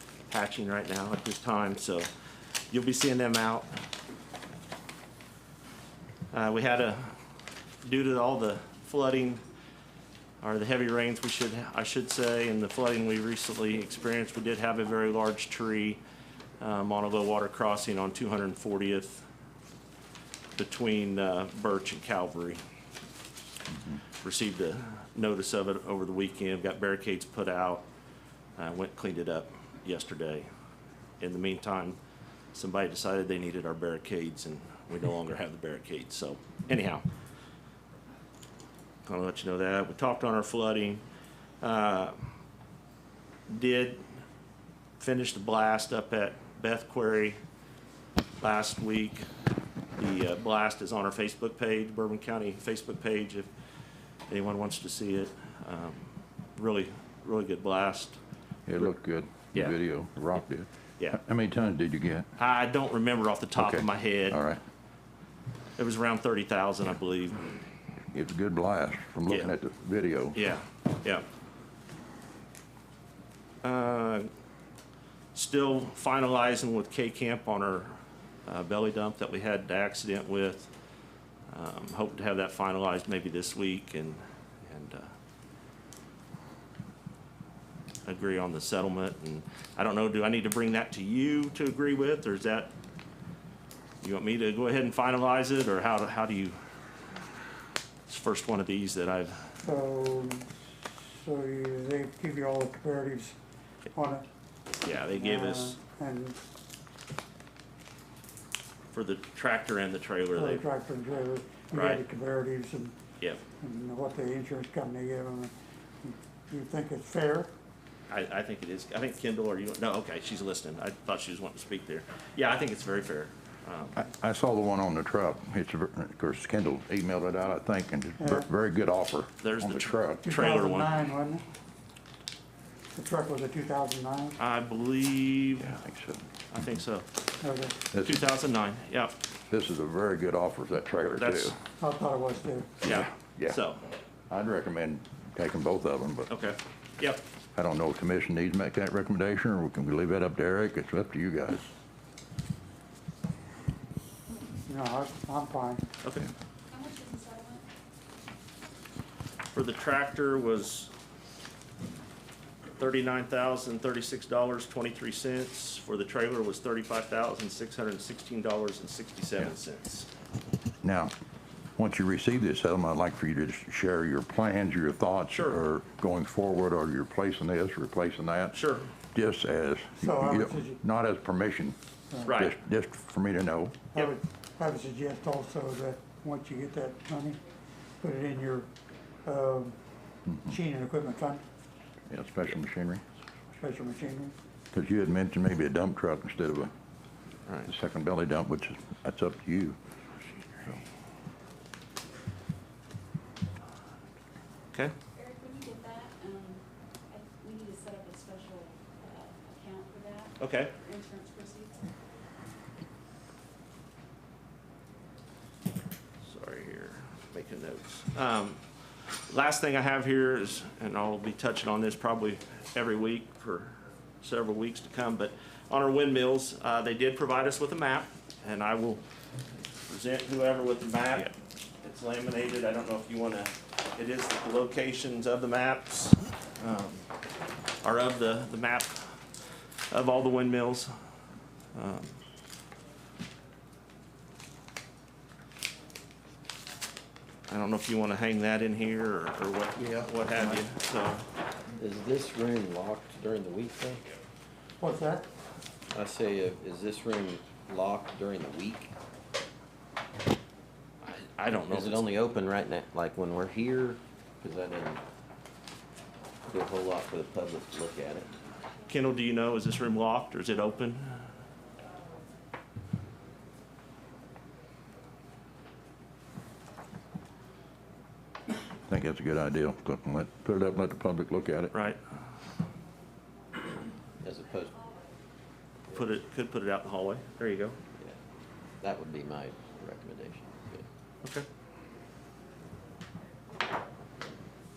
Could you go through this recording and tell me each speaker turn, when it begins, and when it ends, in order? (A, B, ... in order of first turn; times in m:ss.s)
0:00.3-0:02.1 A
0:02.7-0:03.7 A
0:06.3-0:07.2 A
0:07.8-0:09.4 A
0:10.4-0:16.0 A
0:16.6-0:19.3 A
0:20.6-0:22.6 A
0:24.2-0:27.8 A
0:28.6-0:30.5 A
0:31.2-0:32.0 A
0:32.5-0:37.0 A
0:39.1-0:41.0 A
0:41.6-0:42.2 A
0:43.5-0:44.1 A
0:45.0-0:47.4 A
0:48.4-0:49.3 A
0:50.0-0:53.5 A
0:54.3-0:58.2 A
0:58.7-1:02.3 B
1:02.4-1:04.4 A
1:03.6-1:04.6 B
1:05.8-1:07.6 A
1:08.1-1:10.4 B
1:09.3-1:09.5 A
1:10.4-1:11.2 A
1:13.6-1:14.3 A
1:15.3-1:20.7 A
1:21.5-1:25.1 A
1:28.0-1:32.7 A
1:34.0-1:36.6 A
1:38.1-1:39.5 A
1:39.6-1:43.4 C
1:43.9-1:44.2 C
1:44.8-1:45.8 A
1:45.2-1:46.4 C
1:48.9-1:50.6 A
1:50.4-1:53.0 C
1:51.7-1:52.0 A
1:53.6-1:57.5 C
1:58.1-2:04.0 A
2:04.0-2:10.3 B
2:08.2-2:08.5 C
2:09.4-2:11.0 A
2:10.2-2:11.4 C
2:13.0-2:14.4 C
2:14.4-2:15.8 A
2:15.6-2:16.3 B
2:16.5-2:17.1 A
2:17.4-2:17.8 C
2:17.9-2:18.2 B
2:18.0-2:19.2 A
2:19.5-2:21.6 B
2:21.2-2:21.6 A
2:21.8-2:22.8 C
2:22.8-2:23.8 A
2:22.8-2:23.6 B
2:24.3-2:26.3 B
2:26.3-2:27.2 A
2:27.6-2:31.7 B
2:34.7-2:35.8 C
2:36.0-2:36.3 A
2:36.7-2:37.6 D
2:39.5-2:40.9 A
2:42.8-2:50.1 A
2:50.8-2:51.1 B
2:51.8-2:58.6 B
2:55.3-2:55.6 A
2:58.5-2:58.9 A
2:59.1-3:01.8 B
3:00.0-3:00.8 C
3:02.1-3:02.4 C
3:02.2-3:02.6 A
3:02.4-3:03.8 B
3:03.9-3:07.4 C
3:08.0-3:08.7 C
3:09.2-3:09.8 C
3:10.3-3:10.5 B
3:10.5-3:11.4 C
3:12.1-3:13.0 B
3:13.6-3:14.3 C
3:14.7-3:16.7 B
3:17.6-3:19.8 B
3:20.5-3:20.8 B
3:25.2-3:31.8 D
3:30.4-3:30.7 A
3:36.2-3:38.6 A
3:39.3-3:49.0 A
3:49.7-3:57.1 A
3:57.8-3:59.2 A
3:59.9-4:00.9 A
4:01.7-4:02.2 A
4:07.5-4:11.2 A
4:11.8-4:14.2 E
4:14.8-4:15.3 C
4:15.9-4:18.9 E
4:21.0-4:22.1 A
4:21.7-4:25.0 E
4:26.5-4:28.3 E
4:28.9-4:31.2 A
4:38.9-4:41.7 B
4:41.7-4:42.0 A
4:44.2-4:44.8 E
4:45.9-4:47.8 A
4:48.8-4:50.9 E